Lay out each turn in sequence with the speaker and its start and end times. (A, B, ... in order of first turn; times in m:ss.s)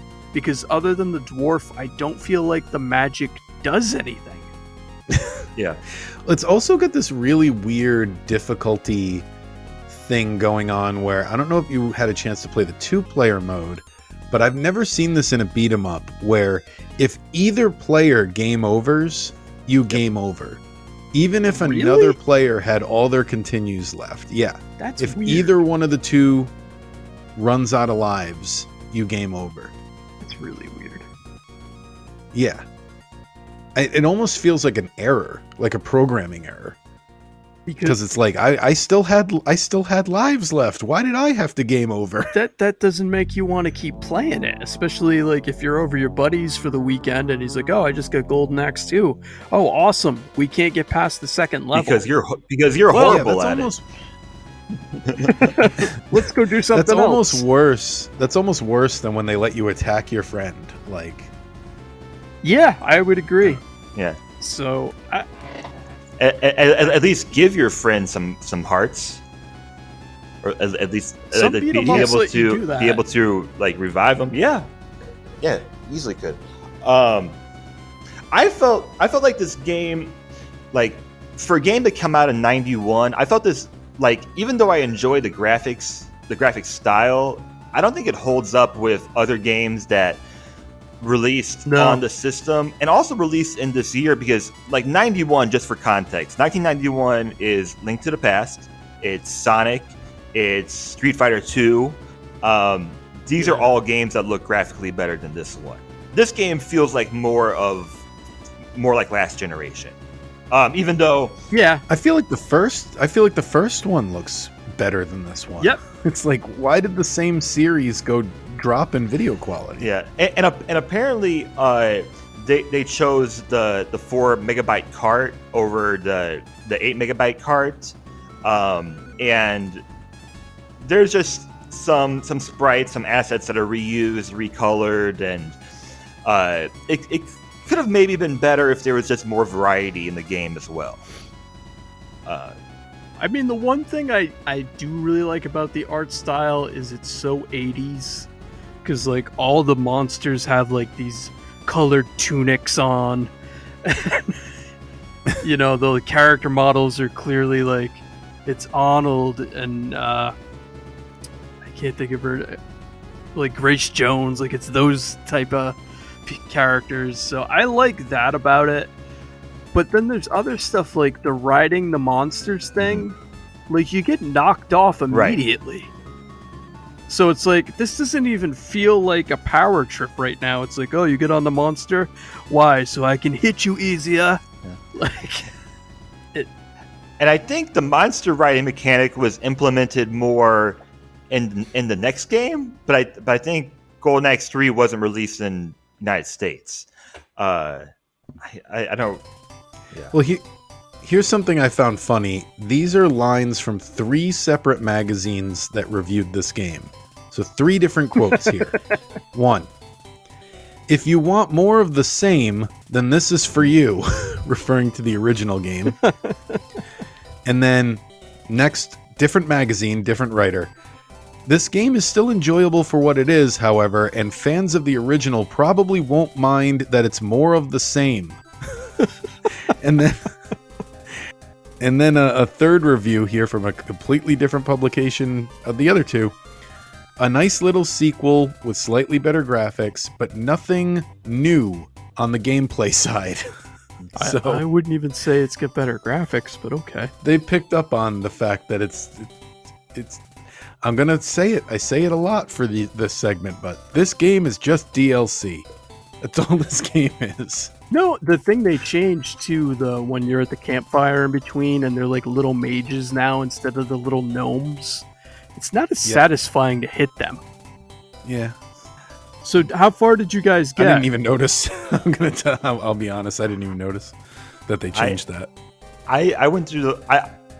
0:00.3-0:04.5 A
0:05.1-0:05.5 B
0:06.2-0:09.2 B
0:09.9-0:20.6 B
0:21.1-0:26.5 B
0:21.4-0:22.2 A
0:24.8-0:25.5 A
0:27.4-0:29.7 B
0:30.2-0:31.0 A
0:32.3-0:32.6 B
0:33.7-0:36.8 B
0:37.6-0:38.0 A
0:37.8-0:42.3 B
0:42.3-0:52.0 A
0:51.7-0:53.7 C
0:52.9-0:53.8 B
0:52.9-0:53.2 A
0:55.0-0:55.6 C
0:55.3-0:57.4 A
0:56.7-1:01.3 B
1:02.4-1:03.6 A
1:03.4-1:04.2 C
1:04.4-1:05.2 A
1:06.2-1:09.2 C
1:10.4-1:14.7 C
1:11.3-1:13.0 A
1:11.8-1:12.1 B
1:15.4-1:17.4 C
1:18.3-1:20.2 C
1:20.7-1:30.2 C
1:31.0-1:48.0 C
1:31.6-1:32.0 A
1:43.4-1:43.7 A
1:48.7-1:50.0 C
1:50.5-1:51.3 C
1:51.5-1:51.8 A
1:51.9-1:59.8 B
1:59.8-2:09.8 C
2:10.8-2:15.6 C
2:16.2-2:21.0 C
2:22.2-2:22.6 C
2:23.2-2:28.3 A
2:28.8-2:33.3 A
2:33.8-2:34.4 A
2:35.4-2:40.3 A
2:41.6-2:42.6 A
2:43.3-2:48.9 A
2:49.7-2:53.2 A
2:52.8-2:53.0 C
2:53.7-2:55.9 A
2:55.1-2:55.4 C
2:57.1-3:04.4 A
3:05.0-3:05.5 A
3:07.2-3:17.9 C
3:18.4-3:19.2 C
3:20.1-3:20.4 B
3:21.0-3:28.7 B
3:28.3-3:29.0 A
3:29.3-3:29.7 B
3:30.9-3:36.0 B
3:36.0-3:36.6 A
3:37.4-3:40.7 B
3:41.4-3:48.9 B
3:49.6-3:50.3 B
3:51.8-3:56.4 B
3:57.2-4:03.4 B
4:04.2-4:04.6 B
4:04.2-4:07.1 A
4:07.2-4:09.3 B
4:09.9-4:10.2 B
4:10.8-4:15.7 B
4:16.2-4:17.7 B
4:17.9-4:27.4 A
4:28.2-4:28.6 B
4:29.4-4:31.1 A
4:30.8-4:34.2 B
4:34.7-4:35.5 B
4:34.9-4:35.2 C
4:36.1-4:37.3 C